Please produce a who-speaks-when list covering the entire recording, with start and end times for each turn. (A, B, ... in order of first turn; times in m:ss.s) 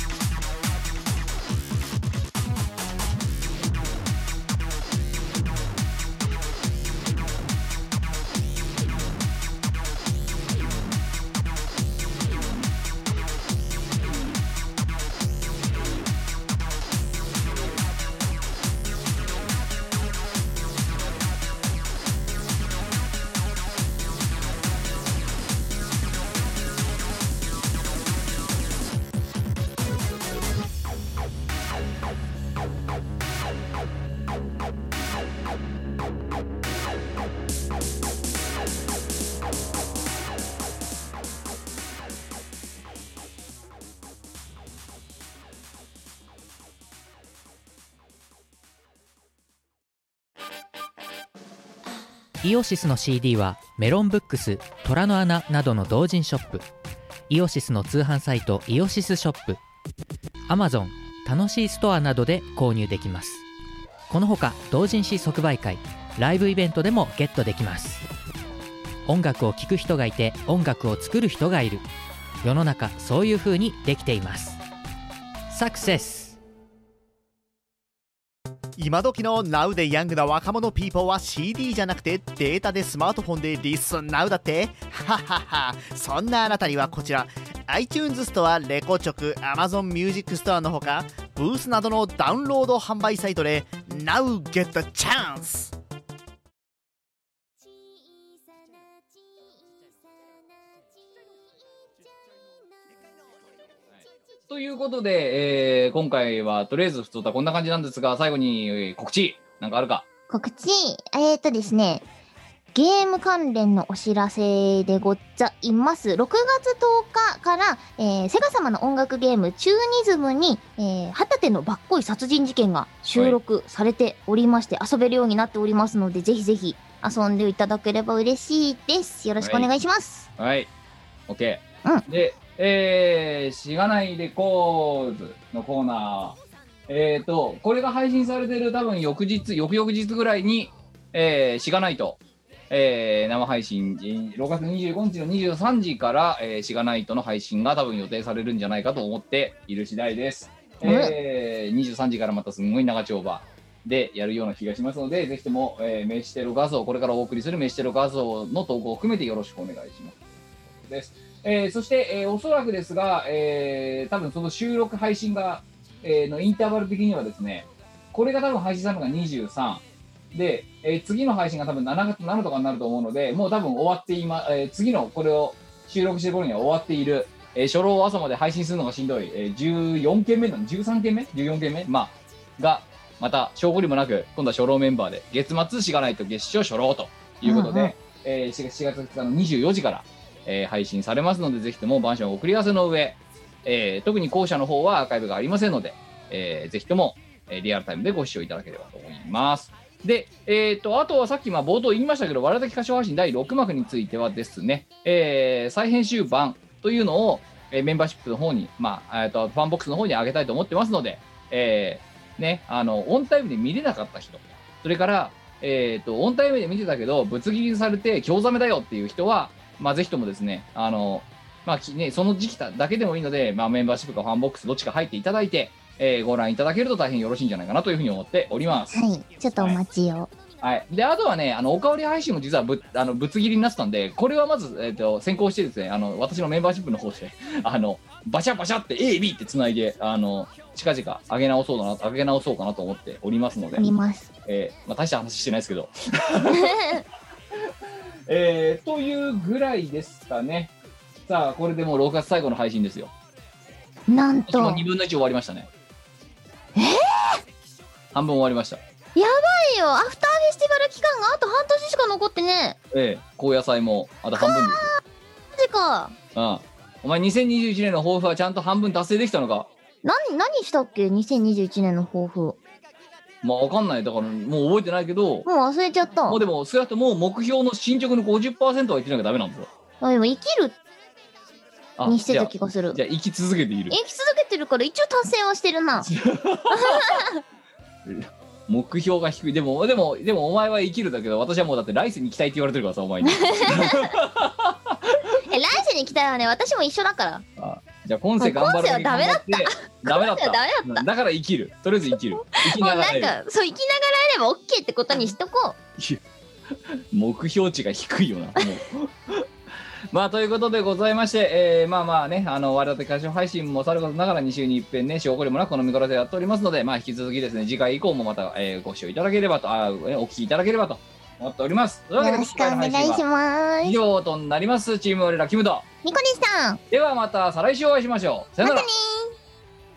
0:52.4-0:56.6 A
0:57.3-0:59.6 A
1:00.5-1:03.4 A
1:04.1-1:08.1 A
1:09.0-1:11.8 A
1:12.4-1:14.6 A
1:15.5-1:16.4 A
1:18.8-1:35.7 B
1:44.5-1:50.0 C
1:50.3-1:52.0 D
1:52.7-2:10.3 D
2:09.4-2:09.7 C
2:10.4-2:10.7 C
2:11.3-2:22.2 C
2:22.7-3:49.0 C
2:30.8-2:31.2 D
3:07.4-3:07.9 D
3:48.9-3:50.3 D
3:50.6-4:03.9 C
4:03.8-4:04.3 D
4:04.4-4:07.0 C
4:06.5-4:07.0 D
4:08.3-4:10.7 C
4:11.2-4:13.1 C
4:14.1-4:14.8 D
4:14.5-4:15.7 C
4:16.8-4:17.4 D
4:18.1-4:18.8 C
4:19.1-4:22.8 D
4:22.9-4:24.9 C
4:24.4-4:25.0 D
4:25.5-4:26.2 D
4:26.3-4:29.7 C
4:30.0-4:32.6 D
4:33.4-4:35.5 C
4:35.4-4:36.4 D
4:36.3-4:39.7 C
4:40.0-4:40.8 D
4:42.0-4:43.9 C
4:42.0-4:43.0 D
4:43.9-4:46.1 D
4:46.0-4:47.1 C
4:46.7-4:47.4 D
4:48.0-4:55.4 C
4:53.2-4:54.1 D
4:55.5-4:57.4 D
4:57.6-5:03.4 C
4:58.4-5:01.0 D
5:02.5-5:05.8 D
5:06.9-5:09.4 C
5:10.1-5:23.2 C
5:22.2-5:24.0 D
5:23.8-5:25.8 C
5:26.0-5:26.8 D
5:26.9-5:28.9 C
5:28.6-5:29.4 D